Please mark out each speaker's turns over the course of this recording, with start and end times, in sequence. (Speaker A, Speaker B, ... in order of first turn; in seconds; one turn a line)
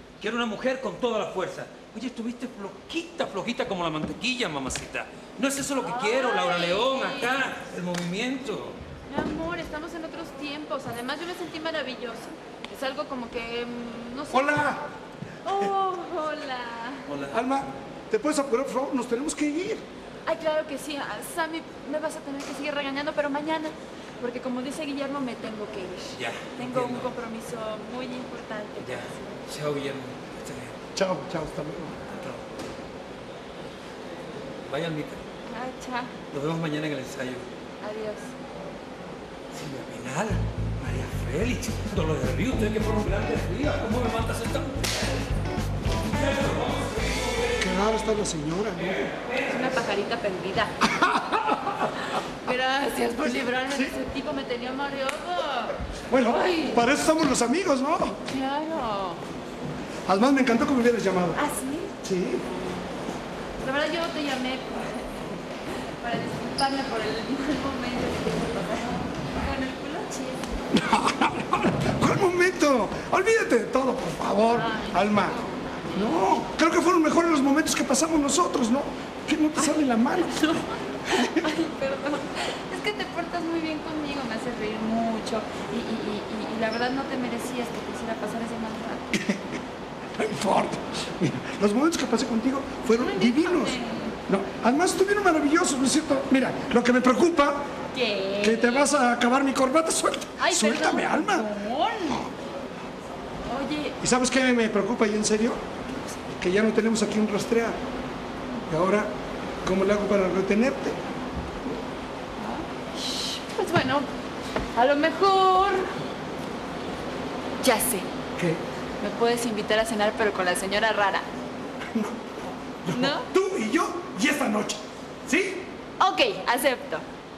Speaker A: 0.2-8.8
Speaker B: 5.9-7.3
Speaker B: 9.1-14.7
Speaker C: 14.3-14.8
Speaker B: 15.4-17.2
Speaker A: 17.1-17.4
Speaker C: 17.3-19.9
Speaker B: 20.3-29.4
Speaker A: 26.2-27.2
Speaker A: 28.8-30.8
Speaker C: 30.9-32.3
Speaker A: 34.7-35.2
Speaker B: 35.5-36.2
Speaker A: 36.3-37.5
Speaker B: 37.8-38.3
Speaker A: 39.5-45.2
Speaker A: 46.1-47.7
Speaker C: 47.6-49.1
Speaker A: 49.2-49.9
Speaker B: 49.5-50.8
Speaker C: 50.8-51.8
Speaker B: 52.5-55.8
Speaker C: 53.7-54.0
Speaker C: 56.1-58.2
Speaker B: 56.4-56.8
Speaker B: 58.2-59.2
Speaker C: 60.0-61.4
Speaker B: 61.4-62.0
Speaker C: 62.0-62.5
Speaker B: 63.6-70.5
Speaker C: 70.7-75.4
Speaker B: 74.6-75.7
Speaker C: 75.9-81.5
Speaker B: 80.3-89.1
Speaker C: 89.1-89.5
Speaker C: 90.2-97.6
Speaker B: 92.9-94.2
Speaker B: 97.9-99.0
Speaker C: 98.4-101.5
Speaker B: 100.4-102.3
Speaker B: 103.5-104.0
Speaker C: 104.0-105.6
Speaker C: 106.4-107.8
Speaker C: 108.7-109.1
Speaker C: 109.6-111.0
Speaker B: 112.4-114.1
Speaker B: 114.8-115.9
Speaker B: 117.6-118.1
Speaker C: 118.4-118.6
Speaker B: 119.0-121.3
Speaker C: 121.9-122.3
Speaker C: 122.8-125.7
Speaker B: 122.9-123.3
Speaker B: 126.0-127.1